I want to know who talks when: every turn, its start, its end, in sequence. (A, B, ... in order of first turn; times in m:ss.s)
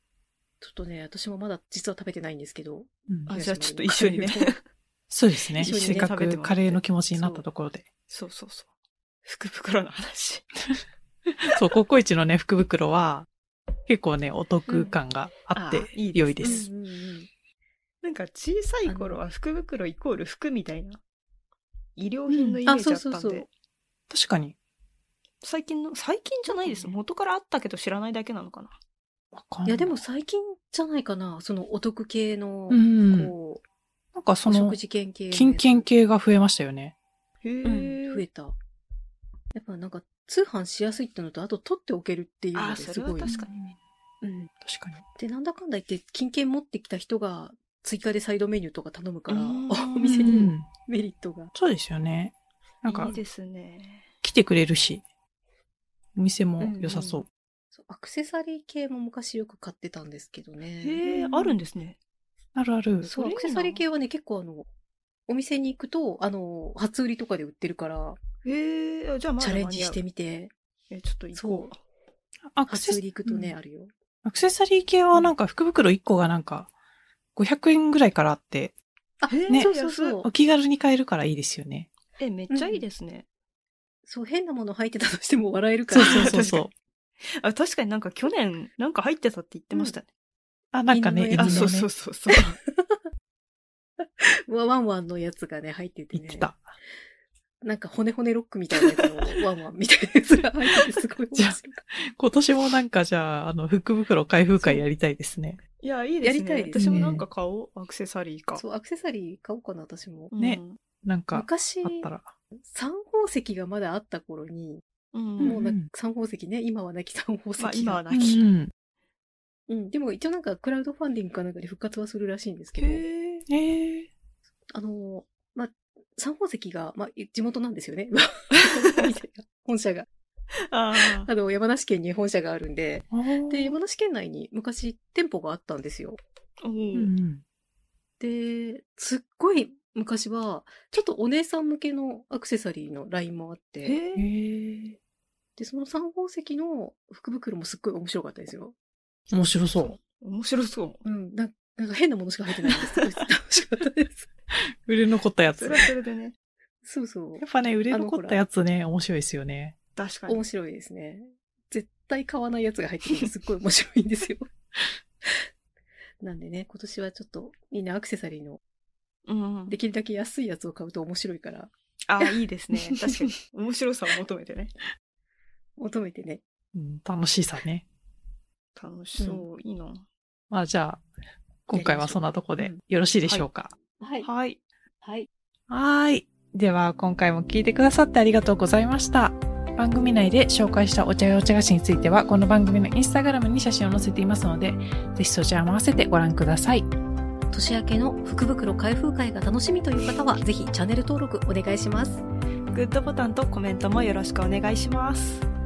0:00.6-0:04.5 A
0:03.3-0:04.6 B
0:05.1-0:07.9 C
0:05.6-0:06.8 B
0:05.6-0:06.1 A
0:07.1-0:07.4 A
0:08.1-0:08.7 B
0:09.2-0:10.5 B
0:11.3-0:13.3 C
0:13.9-0:16.7 C
0:15.5-0:16.7 B
0:16.4-0:17.3 A
0:18.0-0:21.0 B
0:18.8-0:19.2 A
0:22.0-0:23.5 B
0:22.6-0:23.4 A
0:24.1-0:24.5 C
0:25.4-0:28.8 B
0:26.5-0:27.0 A
0:29.3-0:30.0 C
0:29.6-0:33.6 A
0:32.7-0:33.3 C
0:34.1-0:34.8 C
0:34.4-0:35.9 A
0:35.3-0:36.9 C
0:37.4-0:38.2 B
0:37.6-0:38.5 A
0:39.5-0:44.5 A
0:42.5-0:43.5 B
0:43.2-0:43.6 C
0:44.6-0:45.0 C
0:45.0-0:51.5 A
0:49.3-0:50.3 B
0:50.0-0:50.6 C
0:51.5-0:53.1 C
0:52.9-0:54.1 B
0:54.2-0:55.0 C
0:56.1-0:57.2 C
0:56.6-0:57.2 A
0:57.8-1:01.3 A
1:00.8-1:02.0 B
1:01.1-1:01.4 C
1:02.5-1:03.1 C
1:03.0-1:03.8 B
1:03.0-1:04.7 A
1:05.3-1:08.2 A
1:08.4-1:10.0 B
1:09.4-1:10.5 A
1:10.9-1:11.8 B
1:11.3-1:11.7 A
1:12.5-1:13.4 C
1:12.7-1:13.9 A
1:14.2-1:16.7 C
1:17.3-1:18.7 C
1:19.2-1:20.3 A
1:19.3-1:20.2 B
1:20.2-1:21.9 C
1:22.2-1:23.2 B
1:22.5-1:22.8 A
1:24.1-1:26.5 A
1:25.9-1:26.7 C
1:26.0-1:26.7 B
1:27.2-1:30.1 B
1:30.7-1:31.9 C
1:30.9-1:33.0 A
1:31.4-1:32.6 B
1:34.0-1:36.5 A
1:36.1-1:36.7 C
1:37.6-1:41.8 A
1:39.0-1:39.3 B
1:41.4-1:45.6 C
1:45.8-1:48.6 B
1:46.2-1:47.2 A
1:46.8-1:47.2 C
1:48.6-1:50.3 A
1:50.3-1:50.8 B
1:50.4-1:52.3 C
1:51.3-1:52.1 A
1:52.6-1:54.8 A
1:55.1-1:55.6 B
1:55.4-1:58.1 A
1:55.4-1:55.9 C
1:57.6-1:58.4 B
1:58.1-1:58.7 C
1:59.7-2:03.0 A
2:02.8-2:03.4 B
2:03.5-2:04.1 C
2:04.7-2:10.1 A
2:10.7-2:11.3 B
2:10.9-2:16.2 A
2:13.1-2:13.7 C
2:16.6-2:17.1 B
2:16.9-2:17.4 C
2:18.2-2:24.0 A
2:23.8-2:24.3 B
2:24.2-2:25.0 C
2:25.6-2:28.7 A
2:29.3-2:30.0 C
2:29.3-2:30.0 A
2:30.1-2:31.0 B
2:31.0-2:34.3 A
2:34.5-2:35.9 C
2:35.6-2:36.3 B
2:36.8-2:38.4 A
2:37.4-2:39.7 C
2:40.0-2:40.4 B
2:40.3-2:44.5 A
2:46.2-2:48.6 A
2:49.3-2:49.8 B
2:49.7-2:52.4 A
2:52.1-2:54.7 B
2:55.8-2:56.4 A
2:56.7-2:57.8 C
2:58.8-3:00.0 B
2:59.2-2:59.4 A
3:00.5-3:01.0 C
3:01.7-3:03.7 C
3:01.7-3:02.8 A
3:04.0-3:04.3 A
3:04.2-3:04.6 B
3:05.0-3:05.3 A
3:05.7-3:16.9 C
3:17.5-3:22.2 A
3:22.7-3:25.4 B